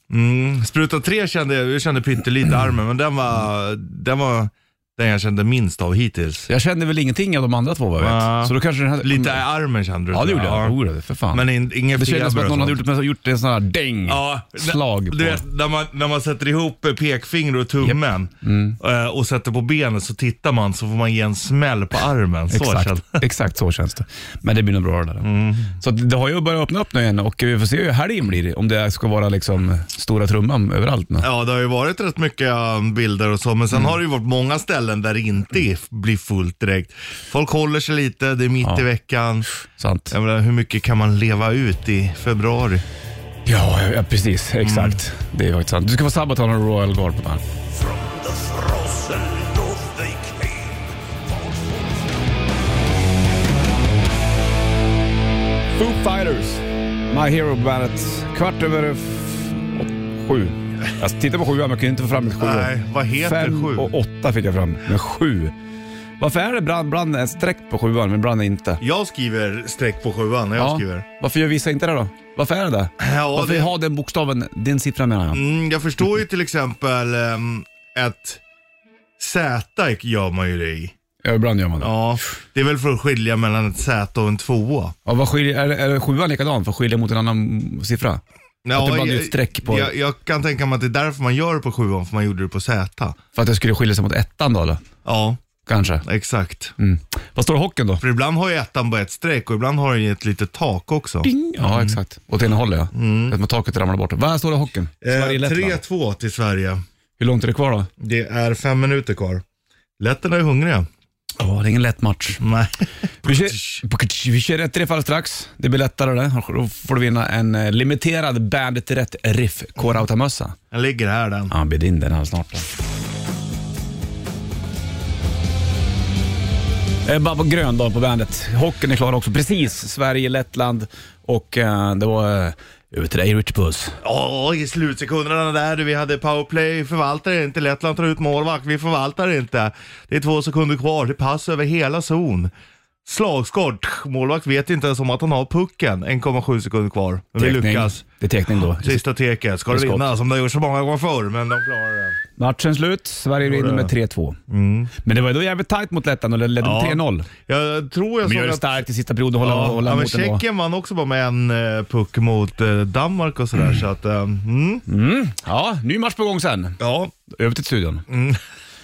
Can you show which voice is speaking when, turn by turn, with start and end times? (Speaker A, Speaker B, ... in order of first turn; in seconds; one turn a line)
Speaker A: 0.1-6.5
Speaker B: 6.5-9.4
Speaker A: 8.0-10.8
Speaker B: 10.1-15.4
Speaker A: 11.3-12.8
Speaker A: 14.1-23.2
Speaker B: 17.8-18.8
Speaker B: 22.5-31.3
Speaker A: 25.2-25.8
Speaker A: 31.2-39.5
Speaker B: 39.6-40.1
Speaker A: 40.1-42.8
Speaker B: 43.5-50.8
Speaker A: 44.6-45.0
Speaker B: 55.8-65.5
Speaker A: 62.4-63.9
Speaker B: 66.2-68.8
Speaker A: 68.8-71.0
Speaker B: 70.6-75.4
Speaker A: 73.0-73.7
Speaker A: 75.3-78.4
Speaker A: 79.2-80.9
Speaker B: 81.2-82.0
Speaker A: 81.8-84.9
Speaker B: 85.1-88.2
Speaker A: 88.7-93.2
Speaker B: 88.8-89.9
Speaker B: 93.3-94.8
Speaker A: 95.0-95.4
Speaker B: 95.7-96.0
Speaker A: 96.0-96.7
Speaker B: 96.8-98.0
Speaker A: 98.0-102.0
Speaker B: 101.2-105.8
Speaker A: 102.9-103.3
Speaker A: 105.0-106.8
Speaker B: 107.2-107.9
Speaker A: 108.0-109.4
Speaker A: 110.0-110.9
Speaker B: 111.4-112.4
Speaker A: 112.4-113.8
Speaker B: 113.2-120.6
Speaker A: 120.7-121.5
Speaker B: 121.5-122.7
Speaker B: 127.0-134.0
Speaker A: 134.0-142.5
Speaker A: 143.1-148.0
Speaker B: 147.4-149.0
Speaker A: 148.7-152.2
Speaker B: 149.7-150.1
Speaker B: 152.4-154.4
Speaker A: 153.4-153.9
Speaker A: 154.5-154.9
Speaker B: 155.0-157.3
Speaker A: 156.6-158.8
Speaker B: 158.2-160.4
Speaker A: 159.4-164.8
Speaker B: 164.9-168.1
Speaker A: 166.8-167.1
Speaker A: 168.1-168.4